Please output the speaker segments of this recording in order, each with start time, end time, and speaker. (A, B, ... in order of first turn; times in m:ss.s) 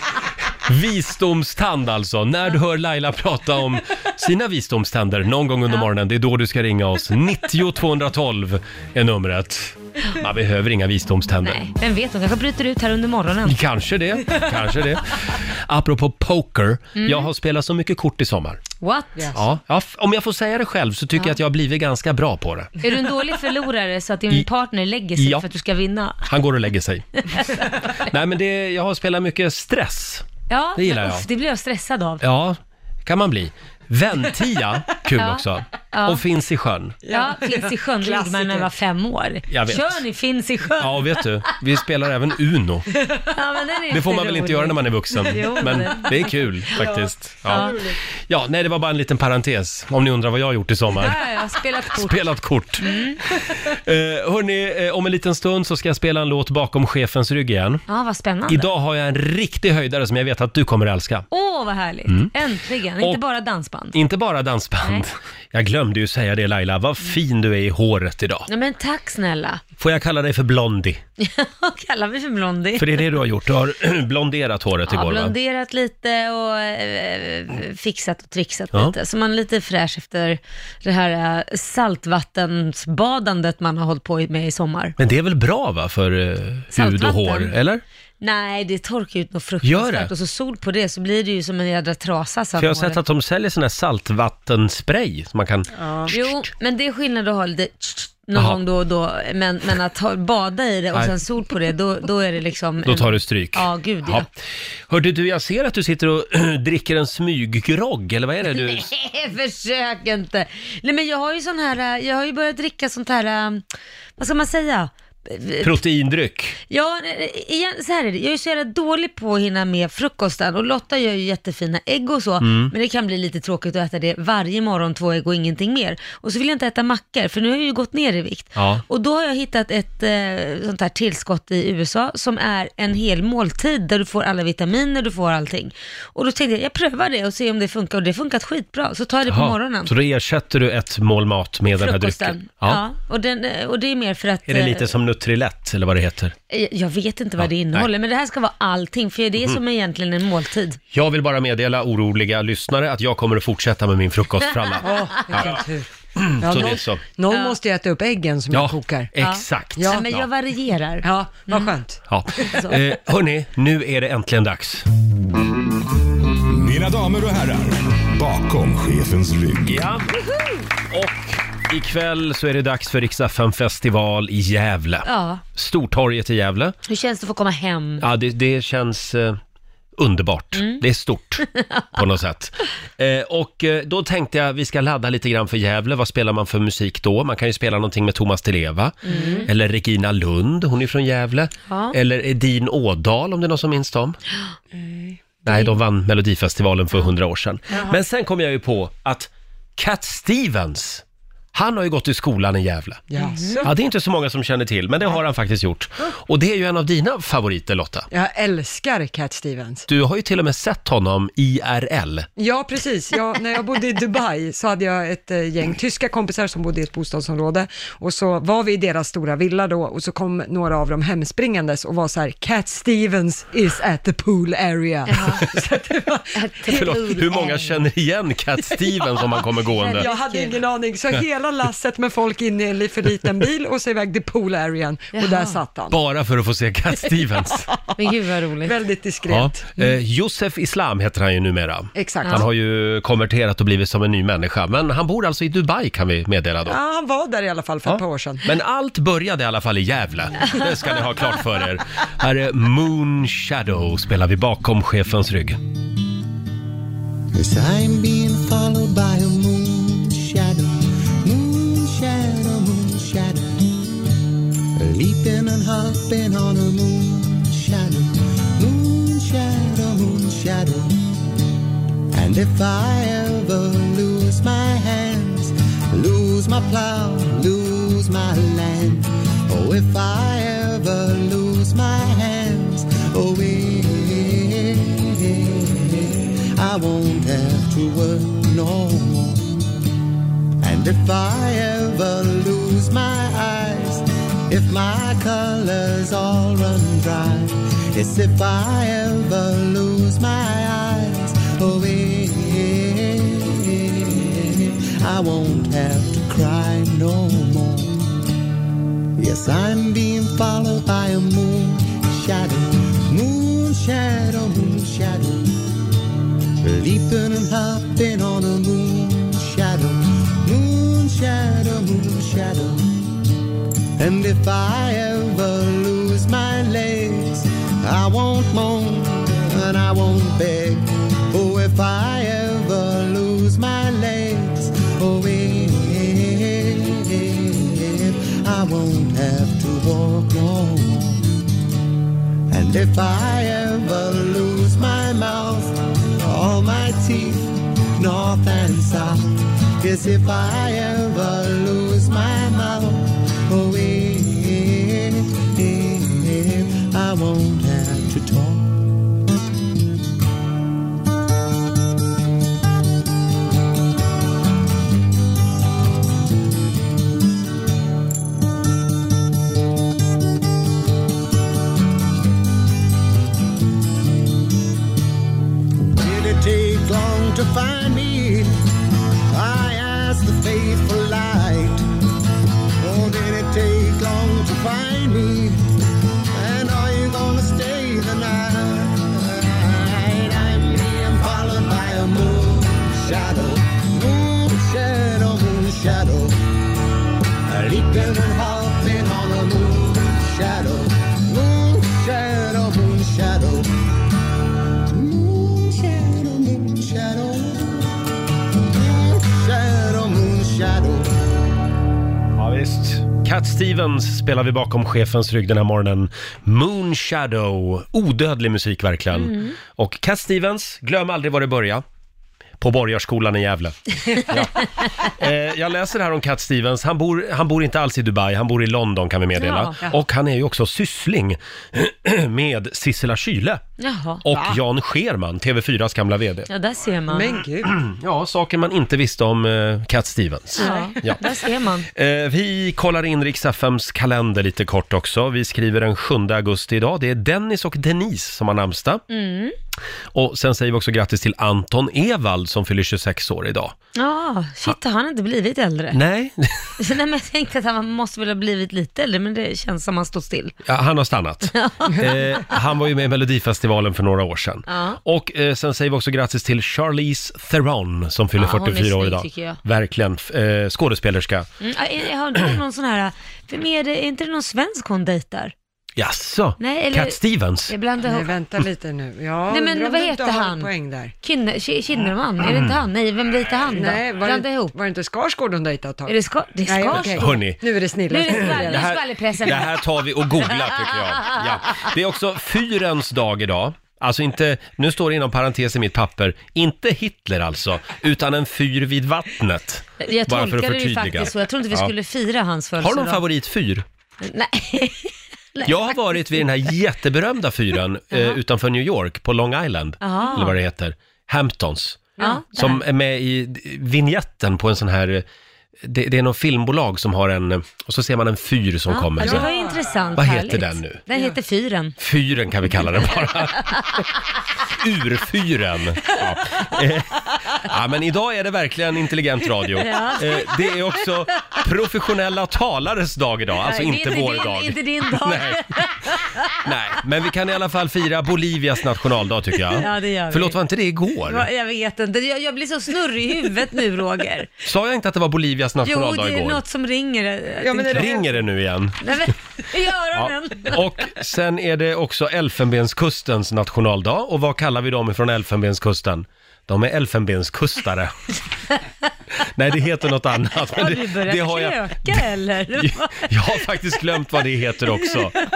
0:00.6-0:11.6 A
0:11.4-0:13.6 B
0:13.5-0:18.7 A
0:17.0-0:17.3 B
0:18.8-0:19.4 B
0:19.3-0:22.7 A
0:22.8-0:26.3 B
0:25.2-0:25.5 A
0:26.3-0:27.2 A
0:27.2-0:28.0 B
0:28.0-0:31.3 A
0:30.5-0:32.2 B
0:32.2-0:37.0 A
0:35.1-0:36.2 B
0:37.0-0:38.7 C
0:37.1-0:41.2 B
0:39.5-0:40.0 A
0:40.8-0:42.9 A
0:43.2-0:46.9 B
0:43.9-0:47.7 A
0:46.8-0:48.0 C
0:47.5-0:47.9 B
0:48.3-0:51.2 A
0:50.9-0:52.3 B
0:51.9-0:57.8 A
0:52.8-0:53.2 B
0:57.9-0:58.7 B
0:58.5-1:01.3 A
1:01.3-1:04.0 B
1:03.9-1:08.5 A
1:08.5-1:09.6 B
1:09.8-1:11.0 A
1:11.2-1:13.0 B
1:12.8-1:15.4 A
1:14.9-1:25.0 B
1:25.0-1:27.8 A
1:26.7-1:27.6 B
1:28.2-1:33.0 B
1:29.6-1:30.1 A
1:32.6-1:36.3 A
1:35.8-1:36.1 C
1:36.1-1:44.3 B
1:38.4-1:38.6 A
1:42.8-1:44.3 A
1:44.9-1:48.9 A
1:48.5-1:53.6 B
1:54.2-1:55.8 B
1:55.6-1:56.6 A
1:56.7-2:19.9 B
2:02.4-2:02.7 A
2:08.6-2:08.8 A
2:19.3-2:22.8 A
2:21.8-2:24.9 B
2:24.5-2:26.3 A
2:26.5-2:30.8 B
2:27.4-2:27.9 A
2:30.9-2:35.6 A
2:34.8-2:35.9 C
2:36.2-2:37.0 A
2:36.4-2:39.1 C
2:37.3-2:37.6 B
2:38.5-2:40.3 A
2:39.2-2:41.8 B
2:39.8-2:40.1 C
2:41.0-2:42.0 C
2:42.1-2:44.9 A
2:42.5-2:42.8 B
2:46.5-2:49.8 D
2:49.6-2:50.1 A
2:50.9-2:56.8 A
2:55.0-2:55.4 B
2:56.9-2:58.1 B
2:58.0-2:59.4 A
3:00.0-3:14.2 A
3:00.6-3:00.8 B
3:01.6-3:01.8 B
3:09.0-3:09.5 B
3:09.1-3:09.5 C
3:11.7-3:12.0 B
3:14.7-3:15.2 C
3:15.4-3:23.0 A
3:23.1-3:23.7 C
3:23.2-3:23.6 B
3:23.6-3:28.1 A
3:28.1-3:29.9 C
3:29.9-3:32.3 A
3:32.4-3:46.3 C
3:45.1-3:45.7 B
3:46.4-3:47.8 B
3:46.7-3:50.1 A
3:49.7-3:56.0 C
3:49.9-3:50.6 B
3:55.1-3:55.6 B
3:55.9-3:57.7 A
3:58.0-3:58.8 B
3:58.6-4:00.0 C
3:59.3-4:06.8 A
4:02.0-4:02.5 C
4:06.7-4:08.4 C
4:07.8-4:15.6 A
4:17.3-4:23.8 E
4:24.8-4:31.2 E
4:32.1-4:49.7 E
4:50.6-5:08.2 E
5:09.2-5:15.6 E
5:16.6-5:23.1 E
5:24.0-5:41.4 E
5:42.5-5:59.0 E
6:16.0-6:18.6 E
6:19.3-6:21.9 E
6:22.8-6:25.6 E
6:26.3-6:36.4 E
6:37.5-6:43.8 E
6:44.7-6:48.0 E
6:48.7-6:51.1 E
6:52.4-7:01.8 A
6:59.1-6:59.6 B
7:02.6-7:13.6 A
7:09.4-7:09.8 B
7:13.8-7:14.2 B
7:14.2-7:16.5 A
7:16.5-7:17.4 B
7:17.1-7:17.8 C
7:17.6-7:21.2 A
7:20.6-7:21.9 B
7:20.6-7:21.0 C
7:21.9-7:29.0 A
7:29.1-7:29.6 B
7:30.1-7:33.8 A
7:34.0-7:36.0 B
7:35.9-7:36.8 A
7:36.8-7:40.6 B
7:40.6-7:51.5 A
7:41.5-7:42.4 B
7:44.7-7:45.0 B
7:48.4-7:49.6 B
7:51.6-7:55.5 B
7:56.0-7:57.7 A
7:56.6-7:58.3 B
7:58.0-8:01.1 C
7:59.5-8:00.7 B
8:01.2-8:04.7 B
8:02.4-8:02.8 A
8:03.7-8:08.9 C
8:06.1-8:07.4 B
8:06.9-8:07.6 A
8:08.1-8:09.8 B
8:08.3-8:21.9 A
8:20.0-8:23.2 B
8:22.8-8:23.8 A
8:24.2-8:25.9 B
8:25.6-8:35.2 A
8:28.1-8:28.4 B
8:30.0-8:30.6 B
8:32.2-8:32.8 B
8:35.8-8:39.5 A
8:38.9-8:42.0 B
8:39.2-8:40.0 C
8:40.2-8:41.0 A
8:42.0-8:43.9 A
8:43.7-8:44.0 B
8:44.7-8:55.7 A
8:49.8-8:50.6 B
8:53.6-8:56.6 B
8:56.6-9:01.5 A
8:59.7-9:00.6 B
9:01.3-9:04.5 B
9:04.6-9:06.6 A
9:05.8-9:08.2 B
9:07.6-9:08.2 C
9:07.7-9:09.1 A
9:09.0-9:10.8 B
9:10.1-9:18.1 A
9:19.4-9:25.4 A
9:20.7-9:23.3 B